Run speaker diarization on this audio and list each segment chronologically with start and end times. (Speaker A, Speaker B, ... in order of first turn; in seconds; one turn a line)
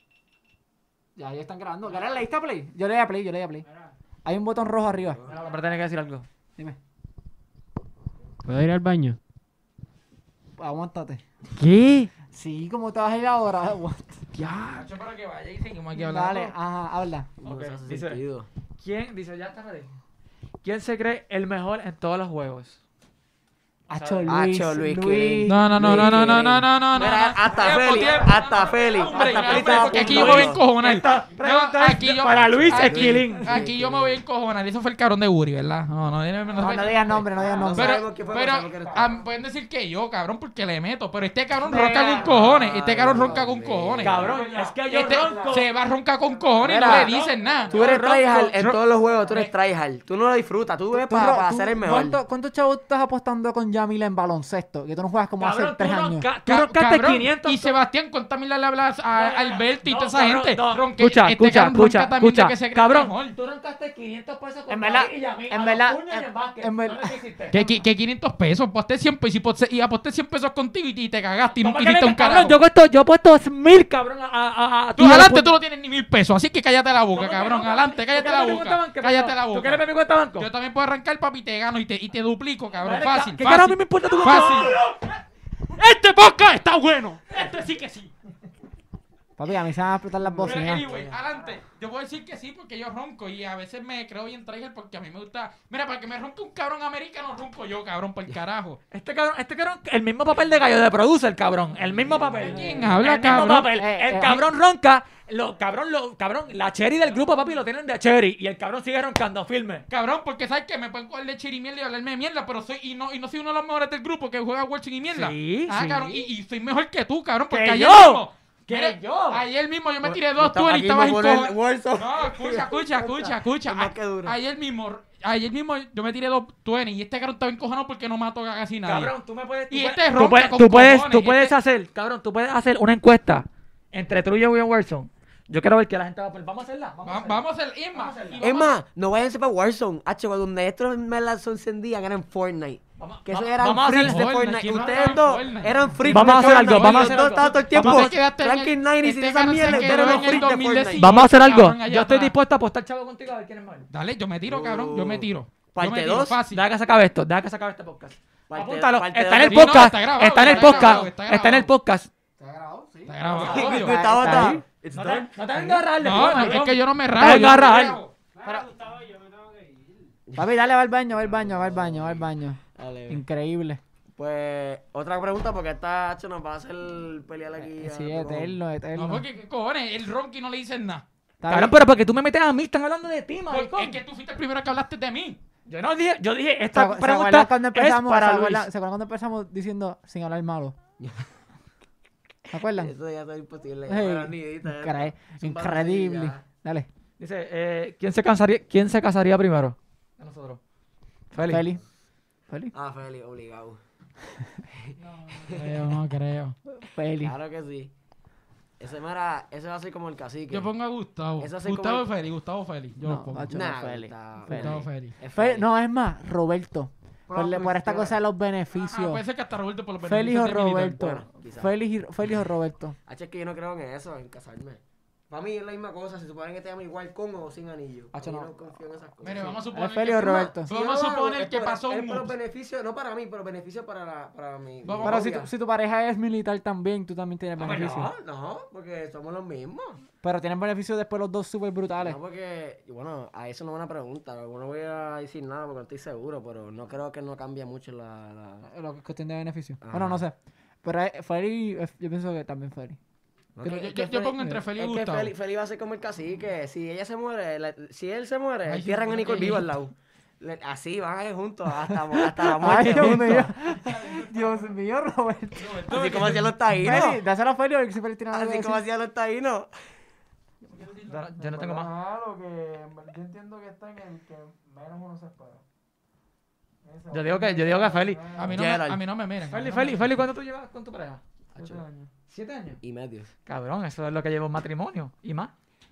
Speaker A: 1.1-3.6
Speaker B: 3.6-3.9
Speaker A: 4.2-5.2
Speaker C: 5.2-6.2
Speaker B: 8.4-9.2
Speaker A: 10.6-11.2
Speaker C: 11.6-12.1
Speaker A: 12.2-14.2
Speaker C: 14.4-14.8
Speaker D: 14.6-16.5
Speaker A: 15.9-17.3
Speaker E: 17.4-18.5
Speaker C: 17.4-18.2
Speaker C: 18.8-19.9
Speaker C: 20.6-22.8
Speaker C: 23.9-24.4
Speaker A: 23.9-26.6
Speaker E: 24.3-30.6
Speaker D: 25.4-37.2
Speaker C: 29.1-33.6
Speaker A: 29.4-29.9
Speaker E: 32.4-34.2
Speaker A: 36.6-38.0
Speaker E: 37.3-39.2
Speaker D: 37.7-48.0
Speaker A: 41.7-42.3
Speaker E: 41.8-44.4
Speaker C: 44.0-45.7
Speaker F: 44.2-45.6
Speaker E: 46.6-47.1
Speaker C: 46.7-48.6
Speaker E: 47.7-52.2
Speaker D: 48.5-49.5
Speaker A: 50.9-56.3
Speaker C: 55.4-57.8
Speaker D: 56.5-63.3
Speaker C: 59.1-67.6
Speaker A: 64.7-67.8
Speaker D: 67.5-72.6
Speaker C: 71.6-75.5
Speaker D: 75.0-79.8
Speaker C: 77.1-80.5
Speaker D: 80.4-84.8
Speaker C: 82.8-85.0
Speaker D: 85.7-88.1
Speaker C: 87.3-88.1
Speaker A: 89.4-90.9
Speaker D: 90.4-98.8
Speaker E: 90.6-91.2
Speaker C: 98.9-109.8
Speaker D: 102.4-103.8
Speaker A: 103.7-104.5
Speaker D: 109.9-129.1
Speaker C: 115.1-116.2
Speaker C: 117.5-119.5
Speaker E: 120.0-124.4
Speaker C: 128.8-137.4
Speaker D: 129.7-131.5
Speaker D: 137.0-138.7
Speaker C: 137.9-138.4
Speaker E: 138.4-151.1
Speaker C: 143.0-145.3
Speaker D: 144.0-152.3
Speaker C: 146.0-148.2
Speaker C: 149.7-150.4
Speaker A: 149.7-150.2
Speaker C: 151.0-153.9
Speaker D: 153.9-156.6
Speaker E: 154.5-156.4
Speaker C: 156.5-162.1
Speaker E: 158.5-161.1
Speaker D: 159.4-161.7
Speaker A: 162.4-164.6
Speaker D: 163.1-164.4
Speaker E: 163.3-165.4
Speaker C: 164.9-168.0
Speaker A: 165.6-165.8
Speaker D: 166.0-168.1
Speaker A: 167.2-167.6
Speaker B: 168.3-170.1
Speaker A: 168.4-168.7
Speaker E: 170.3-173.2
Speaker A: 170.3-173.8
Speaker E: 174.2-178.6
Speaker A: 177.6-179.2
Speaker D: 178.9-181.0
Speaker A: 181.4-181.8
Speaker C: 181.5-184.0
Speaker D: 183.5-185.4
Speaker C: 185.7-188.7
Speaker A: 186.7-190.8
Speaker E: 191.0-191.3
Speaker A: 192.5-192.9
Speaker E: 192.7-196.4
Speaker A: 193.9-196.9
Speaker C: 197.2-200.6
Speaker C: 201.3-201.6
Speaker A: 201.4-201.8
Speaker E: 202.7-203.8
Speaker A: 204.3-204.6
Speaker E: 204.7-205.9
Speaker D: 205.0-206.6
Speaker A: 206.7-207.3
Speaker E: 207.2-207.9
Speaker E: 208.8-210.7
Speaker D: 210.5-213.5
Speaker E: 211.4-212.1
Speaker A: 213.0-219.2
Speaker E: 213.5-215.7
Speaker D: 214.5-215.1
Speaker F: 217.3-218.2
Speaker D: 218.7-221.0
Speaker A: 220.0-223.0
Speaker E: 221.0-221.7
Speaker E: 223.1-229.7
Speaker A: 228.1-228.6
Speaker D: 229.2-232.3
Speaker A: 229.6-230.7
Speaker E: 230.6-235.5
Speaker D: 234.8-235.3
Speaker A: 235.0-238.1
Speaker E: 237.6-240.0
Speaker C: 237.6-238.1
Speaker A: 240.2-242.2
Speaker E: 242.0-248.7
Speaker A: 248.7-253.0
Speaker E: 249.8-250.2
Speaker E: 253.6-254.2
Speaker A: 253.6-254.7
Speaker D: 253.6-255.3
Speaker E: 254.8-263.5
Speaker D: 258.6-259.8
Speaker A: 262.1-265.8
Speaker F: 262.7-263.5
Speaker D: 263.5-264.7
Speaker D: 265.5-266.6
Speaker E: 265.8-267.2
Speaker A: 266.8-268.8
Speaker E: 268.3-269.7
Speaker D: 270.7-271.2
Speaker C: 271.1-271.9
Speaker F: 271.4-275.6
Speaker F: 276.8-278.7
Speaker C: 277.1-278.3
Speaker D: 278.4-280.2
Speaker E: 278.5-279.0
Speaker C: 279.4-282.8
Speaker F: 281.5-282.1
Speaker E: 282.8-283.3
Speaker C: 283.4-285.5